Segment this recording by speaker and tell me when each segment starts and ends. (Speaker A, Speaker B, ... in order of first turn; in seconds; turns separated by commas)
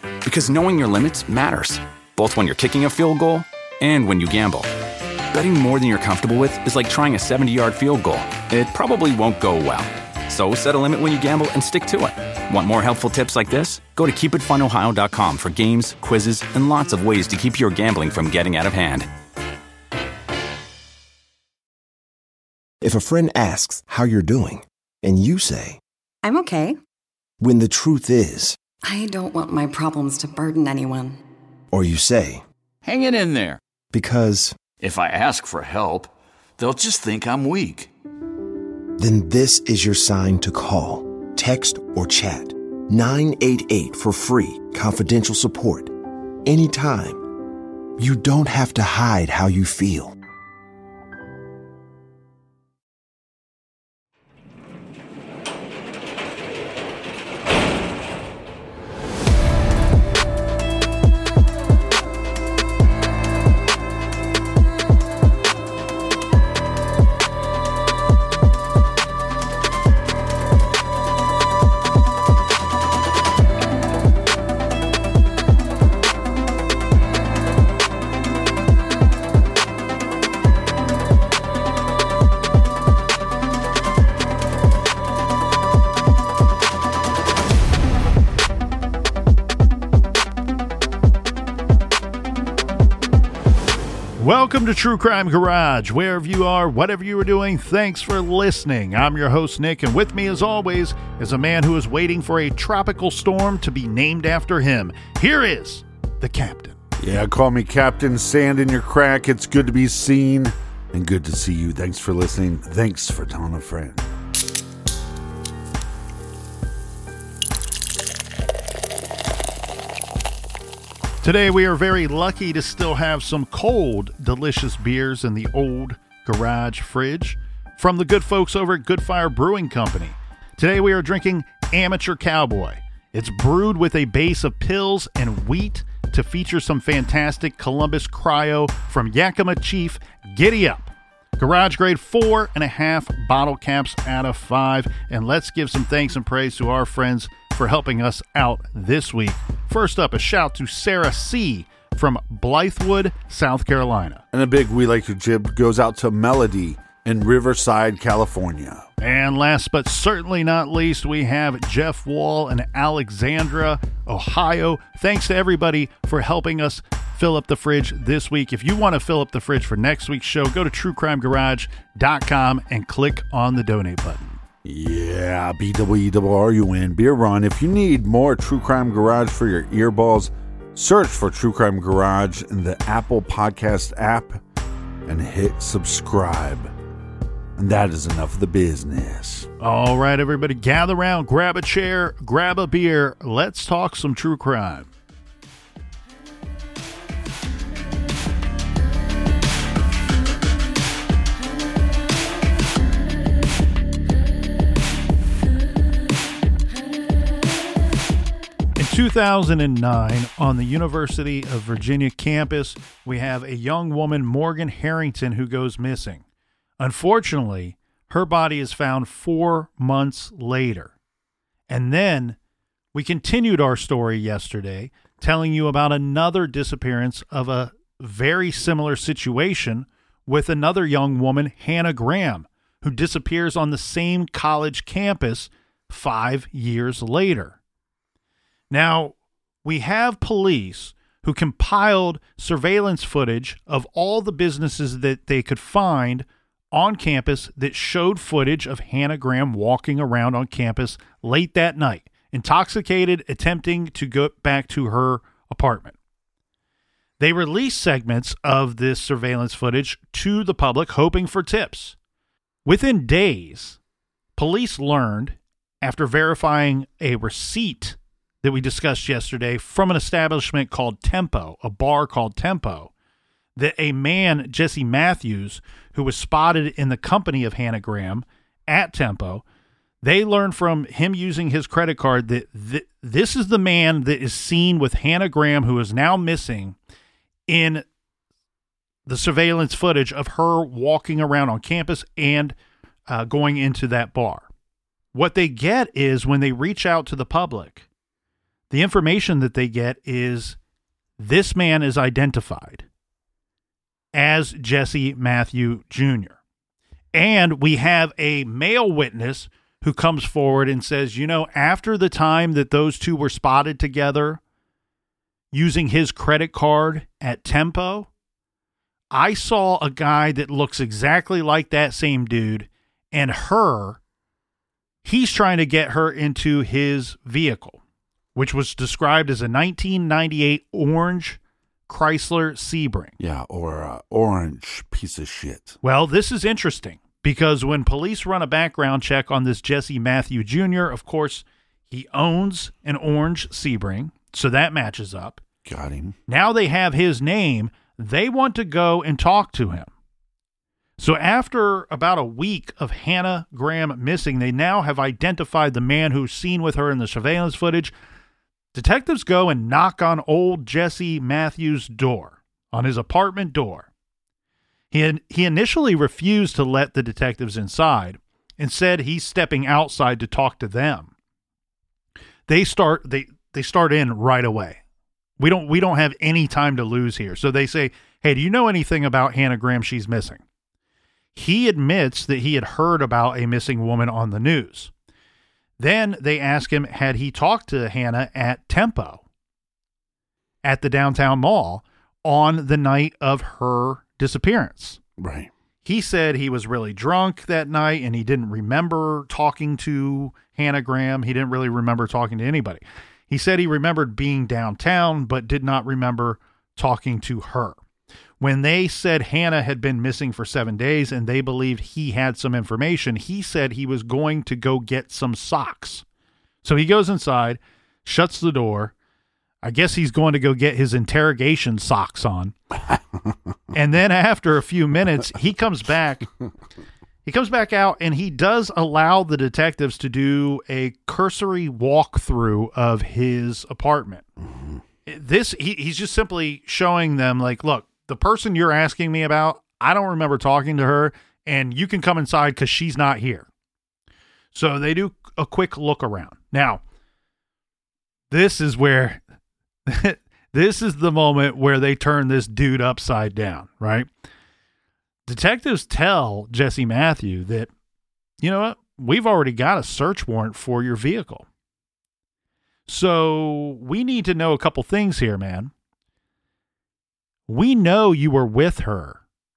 Speaker A: 0.2-4.7, Speaker A: 5.3-19.1, Speaker B: 22.8-25.8, Speaker C: 26.2-26.8, Speaker B: 27.4-28.6, Speaker C: 28.8-31.2, Speaker B: 31.7-32.4, Speaker D: 32.8-33.6, Speaker B: 33.9-34.6, Speaker D: 34.8-37.9, Speaker B: 39.0-45.9, Speaker B: 46.4-47.3, Speaker B: 48.0-50.2, Speaker E: 94.2-106.8, Speaker F: 107.0-114.1, Speaker E: 121.2-154.2, Speaker F: 154.3-158.9, Speaker E: 159.0-174.4, Speaker F: 174.6-184.4, Speaker F: 185.0-186.7, Speaker F: 187.6-189.5, Speaker E: 189.6-194.9, Speaker E: 208.8-216.2, Speaker E: 216.8-220.9, Speaker E: 221.7-222.4, Speaker E: 222.9-237.6, Speaker E: 238.7-255.9, Speaker E: 257.2-261.9, Speaker E: 262.6-263.8, Speaker E: 264.4-272.9, Speaker E: 273.6-279.4, Speaker E: 280.0-286.8, Speaker E: 287.5-287.8, Speaker E: 289.1-292.6, Speaker E: 293.1-294.5, Speaker E: 295.1-297.8, Speaker E: 298.7-300.6, Speaker E: 301.2-302.9, Speaker E: 304.1-306.4, Speaker E: 307.1-314.4, Speaker E: 315.5-318.1, Speaker E: 319.1-324.0, Speaker E: 325.0-327.8, Speaker E: 328.3-333.1, Speaker F: 333.2-335.8, Speaker E: 335.8-345.4, Speaker F: 345.6-346.2, Speaker E: 346.3-349.9, Speaker E: 351.0-357.9, Speaker E: 358.7-363.9, Speaker E: 364.9-371.1, Speaker E: 372.5-374.8, Speaker E: 375.4-380.4, Speaker E: 381.3-384.9, Speaker E: 385.8-389.2, Speaker E: 390.6-395.0, Speaker F: 395.2-395.5, Speaker E: 395.8-407.8, Speaker E: 408.4-416.0, Speaker E: 416.6-418.9, Speaker E: 419.6-422.5, Speaker F: 422.9-423.3, Speaker E: 423.7-426.3, Speaker E: 427.2-434.2, Speaker F: 434.4-434.8, Speaker E: 435.1-443.5, Speaker E: 444.5-446.8, Speaker E: 448.3-449.2, Speaker E: 449.9-454.1, Speaker E: 455.2-457.7, Speaker E: 458.4-461.4, Speaker E: 462.9-465.7, Speaker E: 467.5-469.2